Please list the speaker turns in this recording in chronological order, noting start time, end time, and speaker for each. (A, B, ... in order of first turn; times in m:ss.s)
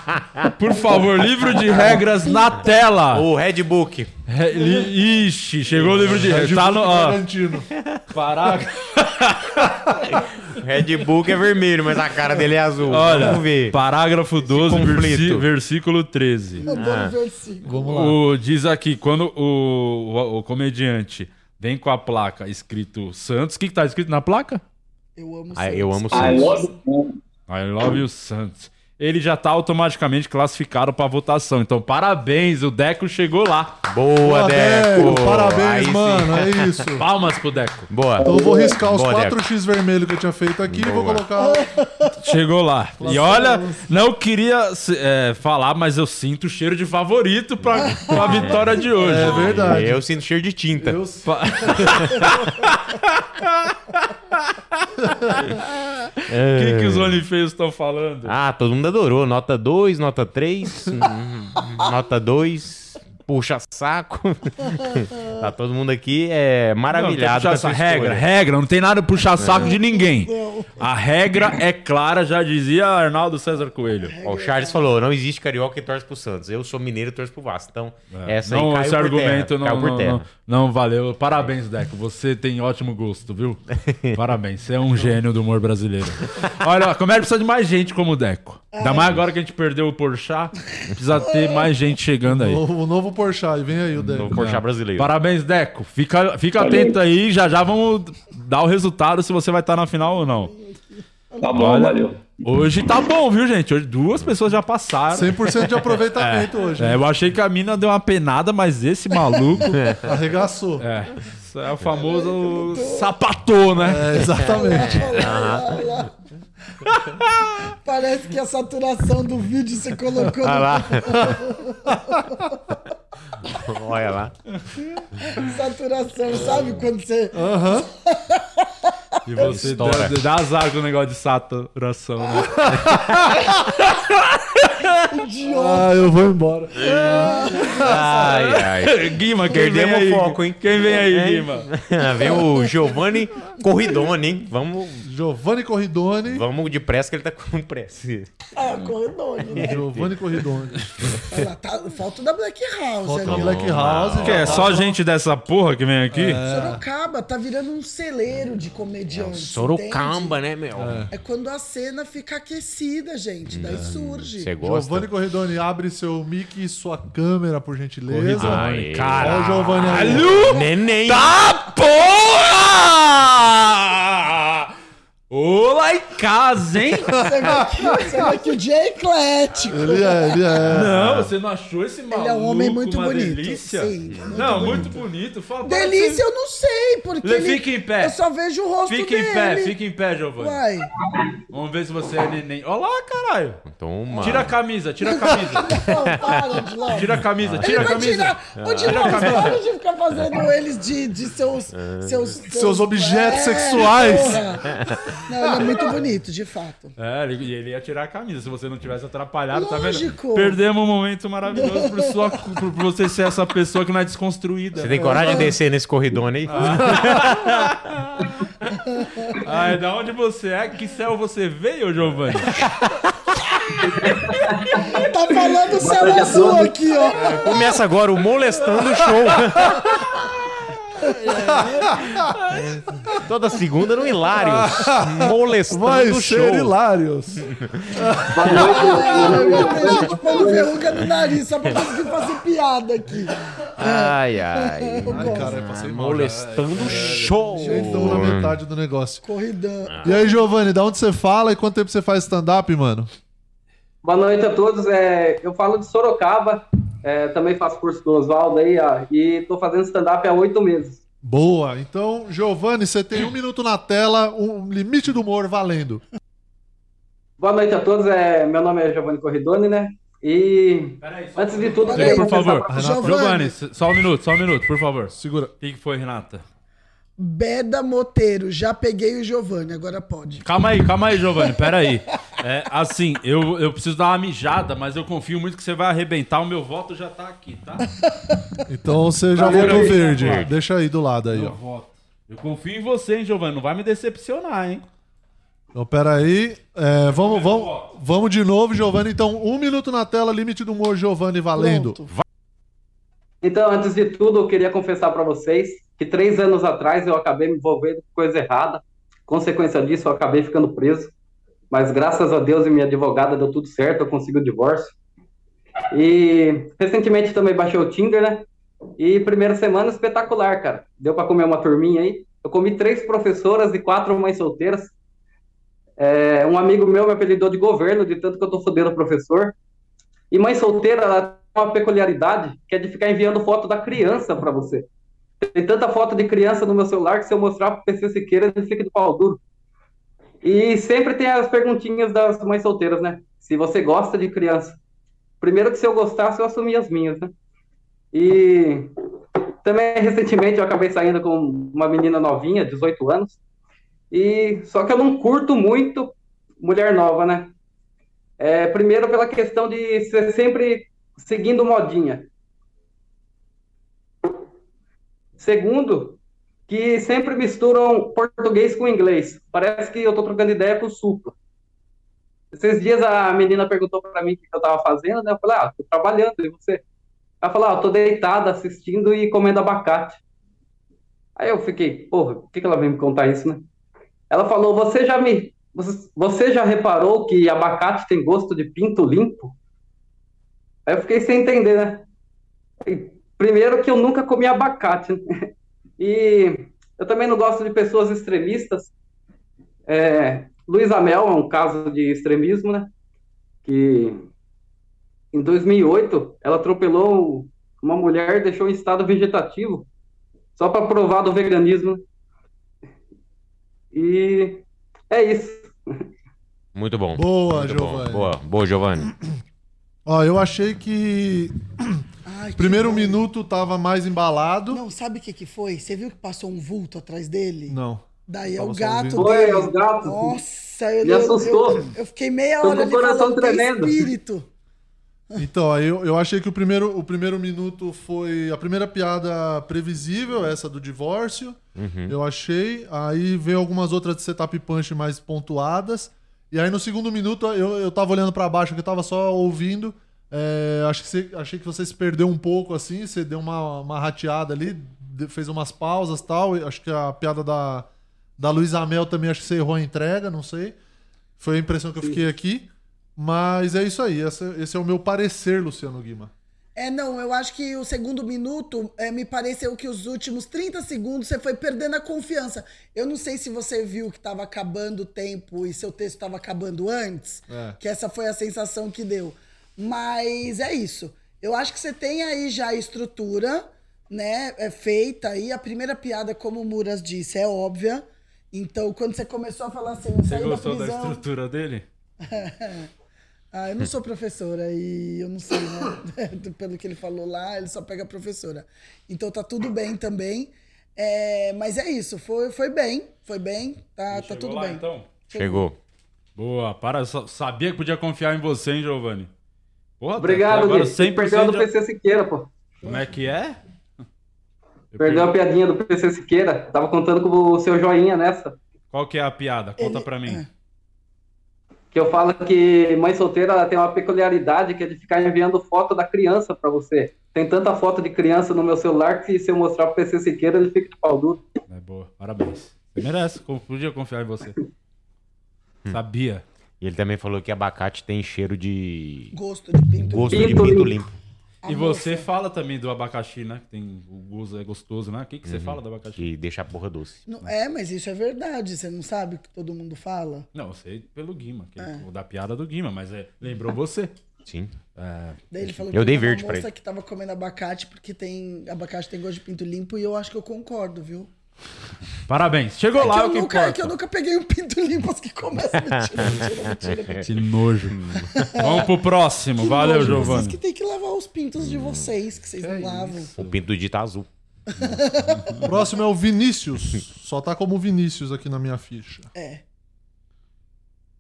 0:00.4-0:03.3 A
0:01.7-0:02.0 B
0:03.1-0:04.1 B
0:04.3-0:07.2 A
0:05.7-0:07.7 C
0:07.8-0:08.0 B
0:08.1-0:09.8 A
0:10.1-0:13.8 B
0:12.9-0:16.7 A
0:14.4-0:15.4 B
0:16.6-0:17.9 D
0:16.7-0:17.1 B
0:17.6-0:18.2 C
0:17.8-0:24.6 A
0:25.2-0:26.7 D
0:25.5-0:26.6 B
0:26.1-0:27.2 E
0:27.5-0:33.8 A
0:33.9-0:36.8 B
0:34.2-0:37.0 C
0:37.0-0:37.9 A
0:37.9-0:39.4 B
0:38.2-0:41.7 C
0:38.3-0:38.6 E
0:40.7-0:41.2 B
0:41.4-0:42.1 D
0:42.2-0:49.8 A
0:43.0-0:43.9 C
0:47.6-0:51.0 B
0:47.9-0:48.5 D
0:48.9-0:50.0 C
0:50.8-0:52.3 C
0:51.2-0:54.8 A
0:51.8-0:52.2 B
0:56.3-0:57.2 B
0:56.5-0:58.3 A
0:58.2-1:08.2 B
1:06.9-1:14.2 A
1:09.4-1:09.7 B
1:09.5-1:10.8 D
1:14.0-1:14.8 D
1:14.2-1:20.2 B
1:18.1-1:23.6 A
1:24.1-1:32.6 A
1:28.7-1:29.1 D
1:32.3-1:34.3 C
1:34.0-1:35.1 B
1:34.2-1:40.5 A
1:36.6-1:36.9 E
1:40.6-1:41.5 D
1:41.4-1:42.3 E
1:41.5-1:49.9 A
1:45.1-1:47.1 C
1:49.3-1:49.7 D
1:49.7-1:50.0 B
1:50.0-1:50.8 C
1:50.8-1:54.2 A
1:52.0-1:53.1 D
1:53.8-1:55.0 C
1:54.3-1:56.1 D
1:54.6-1:55.8 B
1:56.9-1:57.6 A
1:57.8-2:02.5 D
2:00.4-2:01.3 B
2:01.1-2:02.1 C
2:03.4-2:04.3 B
2:05.2-2:08.7 D
2:07.3-2:07.9 C
2:09.2-2:12.7 A
2:09.4-2:10.2 B
2:12.6-2:13.4 C
2:13.8-2:15.1 A
2:15.1-2:16.1 D
2:15.5-2:18.2 C
2:16.8-2:25.0 B
2:17.0-2:17.9 D
2:18.1-2:21.7 A
2:25.0-2:26.4 C
2:26.2-2:28.3 B
2:28.5-2:29.8 D
2:29.5-2:31.2 C
2:29.6-2:30.4 B
2:31.3-2:33.7 D
2:33.0-2:35.0 C
2:33.2-2:34.8 B
2:34.2-2:36.4 A
2:36.1-2:36.8 C
2:36.4-2:40.4 D
2:39.1-2:41.1 B
2:40.8-2:41.1 C
2:41.1-2:44.5 D
2:43.5-2:45.1 B
2:44.6-2:48.6 C
2:48.1-2:54.7 A
2:48.4-2:51.4 B
2:49.2-2:50.5 C
2:55.3-2:57.1 A
2:57.1-3:00.6 D
2:57.1-2:58.2 C
2:59.7-3:01.3 C
3:00.6-3:06.2 A
3:02.1-3:05.0 D
3:05.6-3:09.8 D
3:07.2-3:08.2 A
3:08.8-3:10.6 A
3:10.4-3:10.9 D
3:11.5-3:13.6 A
3:13.6-3:14.5 B
3:14.2-3:15.9 A
3:15.0-3:26.9 D
3:16.9-3:19.6 A
3:17.4-3:17.8 B
3:18.6-3:19.4 B
3:21.7-3:22.4 B
3:22.5-3:24.6 C
3:24.7-3:25.0 B
3:27.0-3:35.4 A
3:29.5-3:30.6 D
3:31.6-3:32.1 D
3:34.8-3:37.5 B
3:35.0-3:35.3 C
3:35.0-3:35.5 D
3:36.5-3:38.4 A
3:38.7-3:39.3 D
3:39.4-3:42.6 A
3:44.0-3:44.7 F
3:44.7-3:47.5 D
3:45.8-3:46.8 F
3:47.1-3:50.0 B
3:49.4-3:49.6 C
3:51.0-3:52.8 A
3:51.3-3:52.2 C
3:53.1-3:56.7 B
3:54.3-4:00.1 C
3:57.5-3:57.9 B
3:58.3-4:00.7 F
3:58.5-4:05.6 D
4:03.8-4:08.6 B
4:05.1-4:09.2 C
4:06.8-4:07.4 A
4:07.6-4:08.2 D
4:09.2-4:10.4 D
4:09.9-4:10.2 B
4:10.0-4:13.1 C
4:14.0-4:21.0 F
4:21.2-4:26.0 C
4:27.4-4:32.6 F
4:31.0-4:36.4 A
4:31.8-4:33.6 D
4:32.7-4:33.3 C
4:35.1-4:35.5 C
4:37.2-4:40.4 D
4:40.4-4:47.9 A
4:48.7-4:51.6 C
4:49.4-4:50.5 A
4:49.4-4:50.5 B
4:49.5-4:49.7 D
4:51.3-4:54.8 A
4:55.7-5:02.0 C
4:57.1-4:57.9 A
5:01.6-5:02.1 D
5:03.4-5:11.1 F
5:11.7-5:14.9 F
5:15.9-5:18.4 F
5:19.0-5:24.9 F
5:26.0-5:29.5 F
5:30.3-5:34.8 F
5:35.4-5:39.4 F
5:40.4-5:44.8 F
5:45.4-5:47.3 F
5:48.1-5:48.9 F
5:49.6-5:53.4 F
5:54.1-5:57.5 F
5:58.4-6:02.3 F
6:05.4-6:11.3 F
6:12.5-6:16.8 F
6:17.4-6:20.2 F
6:21.4-6:23.6 F
6:24.3-6:29.5 F
6:30.8-6:32.0 F
6:32.8-6:35.2 F
6:36.0-6:38.9 F
6:39.9-6:42.9 F
6:43.6-6:44.2 F
6:45.3-6:49.9 F
6:50.6-6:52.0 F
6:53.9-6:55.9 F
6:56.7-6:59.1 B
6:57.1-6:58.3 C
7:00.0-7:02.0 C
7:02.2-7:03.2 D
7:02.6-7:04.8 C
7:04.7-7:14.5 D
7:07.7-7:09.5 C
7:09.1-7:10.4 F
7:11.0-7:11.9 F
7:12.6-7:14.1 F
7:15.4-7:21.6 C
7:21.8-7:22.1 B
7:22.1-7:40.7 C
7:41.4-7:46.3 C
7:46.8-8:11.2 D
7:57.5-7:57.8 C
8:10.2-8:11.8 A
8:12.2-8:12.9 D
8:13.5-8:25.7 D
8:24.1-8:25.1 A
8:25.3-8:25.8 B
8:26.4-8:29.3 A
8:30.0-8:31.7 A
8:30.2-8:32.5 F
8:32.8-8:33.6 A
8:34.9-8:35.3 A
8:35.0-8:38.6 F
8:38.9-8:40.4 A
8:39.8-8:40.5 D
8:41.9-8:51.4 F
8:51.7-8:54.5 A
8:55.9-8:56.4 A
8:56.8-8:59.3 B
8:59.3-9:00.9 D
9:00.0-9:01.1 B
9:00.3-9:01.0 F
9:01.6-9:02.3 D
9:01.6-9:06.2 A
9:05.4-9:07.3 B
9:07.3-9:10.5 D
9:10.5-9:14.1 A
9:11.8-9:12.0 D
9:14.4-9:14.7 B
9:14.9-9:15.4 A
9:15.5-9:21.3 D
9:15.9-9:16.7 B
9:22.3-9:23.9 A
9:23.0-9:27.3 D
9:25.9-9:27.2 B
9:27.2-9:30.6 A
9:27.9-9:28.5 B
9:28.4-9:28.8 D
9:29.6-9:33.3 D
9:31.6-9:32.1 B
9:32.6-9:33.6 A
9:33.4-9:34.3 B
9:34.7-9:35.7 D
9:35.3-9:35.6 A
9:35.6-9:39.3 C
9:39.3-9:39.6 D